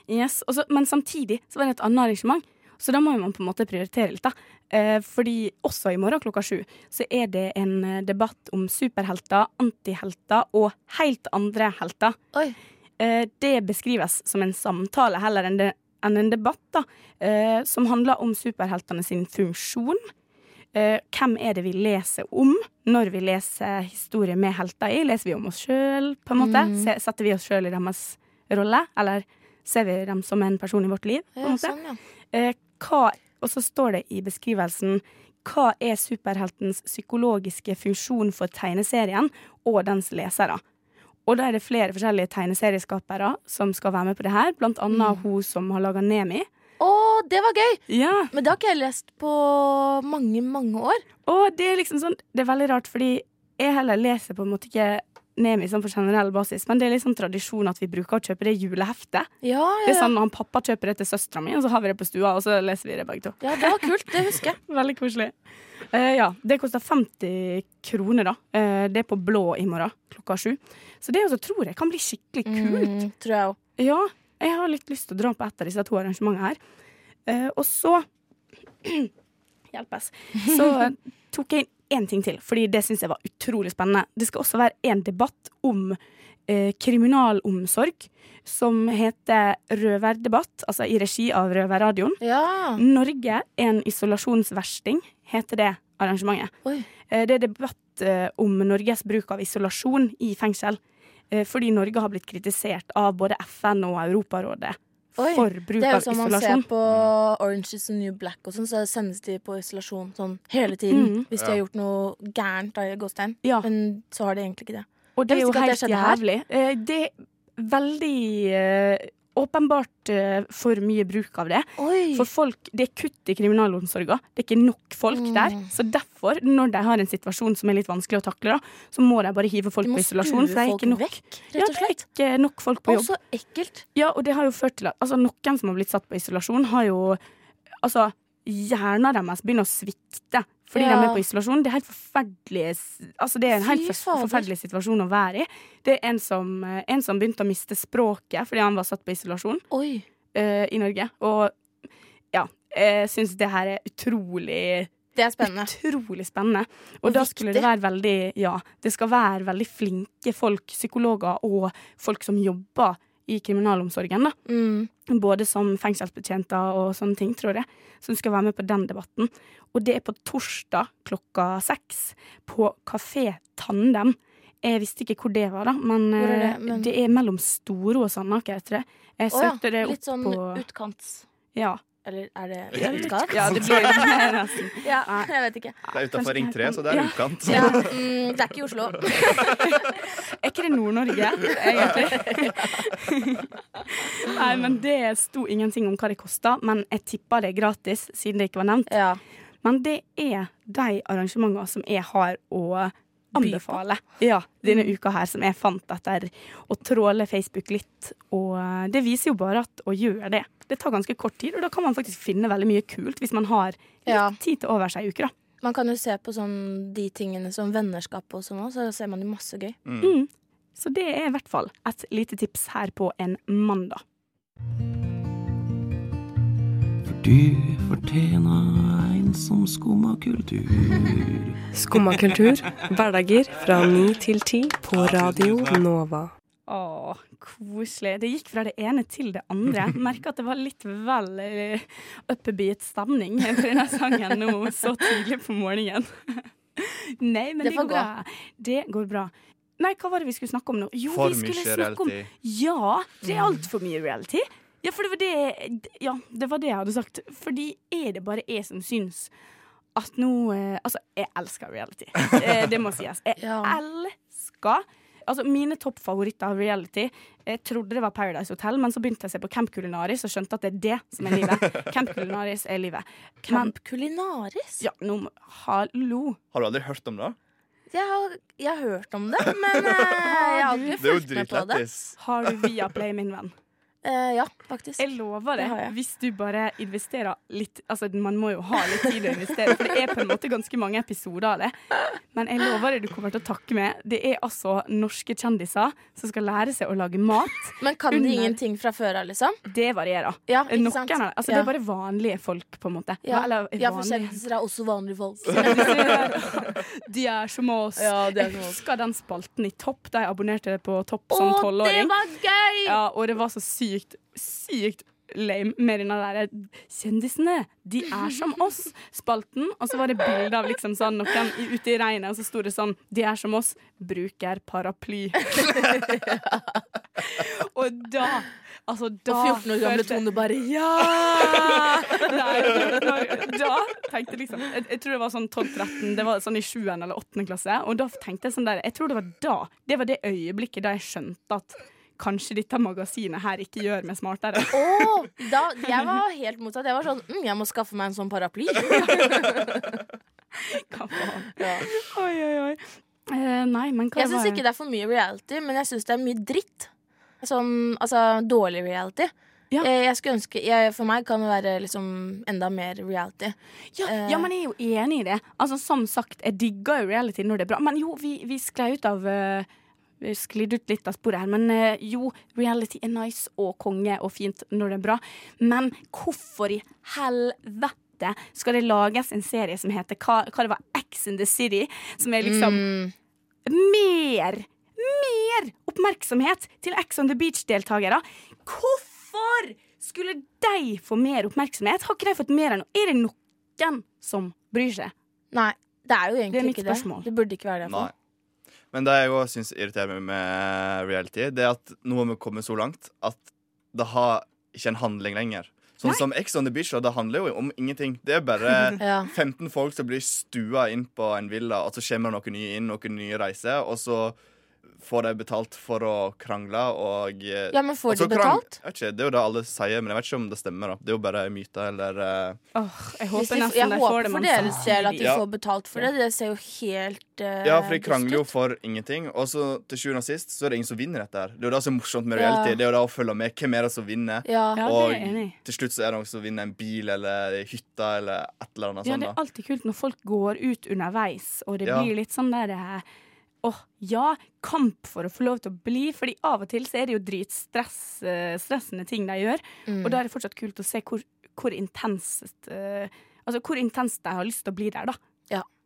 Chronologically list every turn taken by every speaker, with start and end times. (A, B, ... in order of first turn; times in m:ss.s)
0:00.1-0:12.2 A
0:13.0-0:20.0 A
0:20.8-0:31.8 A
0:26.4-0:26.9 B
0:31.4-0:32.0 B
0:32.3-0:40.6 A
0:41.3-0:46.5 A
0:44.9-0:45.2 B
0:46.8-0:51.0 B
0:47.9-0:48.3 A
0:51.3-0:59.3 A
0:59.4-1:00.1 B
0:59.8-1:03.9 A
1:03.4-1:04.6 B
1:04.7-1:05.3 A
1:05.9-1:13.0 A
1:12.5-1:13.6 B
1:13.8-1:16.6 A
1:17.3-1:18.0 A
1:18.8-1:19.1 A
1:19.7-1:32.2 A
1:20.5-1:20.9 B
1:32.2-1:32.8 B
1:32.8-1:36.5 A
1:37.1-1:40.8 A
1:41.3-1:46.6 A
1:45.2-1:56.2 B
1:46.9-1:47.1 C
1:50.9-1:51.2 A
1:51.3-1:51.6 C
1:55.2-2:13.1 A
2:01.8-2:02.3 B
2:05.1-2:05.7 B
2:09.9-2:12.0 B
2:12.9-2:13.8 B
2:14.0-2:17.2 A
2:17.8-2:29.6 A
2:20.7-2:21.2 B
2:23.5-2:24.5 B
2:29.7-2:30.0 B
2:30.3-2:31.6 A
2:32.3-2:44.4 A
2:35.2-2:35.7 B
2:37.0-2:37.7 B
2:44.5-2:44.9 B
2:45.1-3:00.6 A
2:56.2-2:56.9 B
2:59.3-3:01.2 B
3:01.6-3:01.8 A
3:02.0-3:04.1 B
3:02.7-3:04.1 C
3:02.8-3:05.3 A
3:04.8-3:05.8 B
3:05.9-3:07.8 A
3:05.9-3:08.0 C
3:07.5-3:09.6 B
3:09.2-3:19.0 A
3:11.7-3:12.7 B
3:18.9-3:19.2 B
3:19.6-3:35.3 A
3:23.4-3:23.8 B
3:24.7-3:24.9 B
3:34.1-3:34.4 B
3:35.6-3:39.8 B
3:39.8-3:40.2 C
3:40.0-3:44.0 A
3:47.0-3:51.6 D
3:51.7-3:56.3 E
3:56.7-4:19.3 A
4:07.6-4:08.1 B
4:11.1-4:12.3 C
4:20.0-4:33.7 A
4:23.4-4:23.8 B
4:31.2-4:31.9 C
4:33.4-4:34.8 B
4:34.8-4:36.4 A
4:36.5-4:37.4 C
4:37.9-4:41.8 B
4:40.2-4:40.9 A
4:41.0-4:42.2 C
4:42.2-4:43.5 A
4:44.0-4:45.0 B
4:45.0-4:58.6 A
4:45.6-4:45.9 B
4:57.8-4:59.6 B
4:59.7-5:04.4 A
5:00.5-5:01.7 B
5:03.3-5:06.4 B
5:05.6-5:12.1 A
5:08.0-5:08.8 B
5:11.3-5:13.0 B
5:12.8-5:26.0 A
5:25.6-5:26.7 B
5:27.2-5:30.2 A
5:29.3-5:33.0 B
5:31.0-5:45.0 A
5:44.7-5:50.0 B
5:48.9-5:49.5 A
5:50.6-5:54.6 A
5:51.6-5:51.9 B
5:54.2-5:56.9 B
5:57.4-6:04.5 B
6:03.9-6:09.7 A
6:10.2-6:22.9 A
6:22.4-6:23.1 B
6:23.7-6:35.1 A
6:35.5-6:38.1 B
6:36.5-6:37.3 A
6:37.9-6:38.1 C
6:38.9-6:54.4 C
6:49.0-6:49.3 B
6:55.0-7:02.6 C
6:57.7-6:58.8 B
7:02.8-7:05.4 A
7:03.4-7:08.5 B
7:07.6-7:19.4 C
7:12.4-7:12.8 B
7:14.5-7:14.8 B
7:14.8-7:15.6 A
7:19.0-7:23.0 A
7:21.8-7:22.1 C
7:23.6-7:35.2 A
7:29.9-7:30.2 B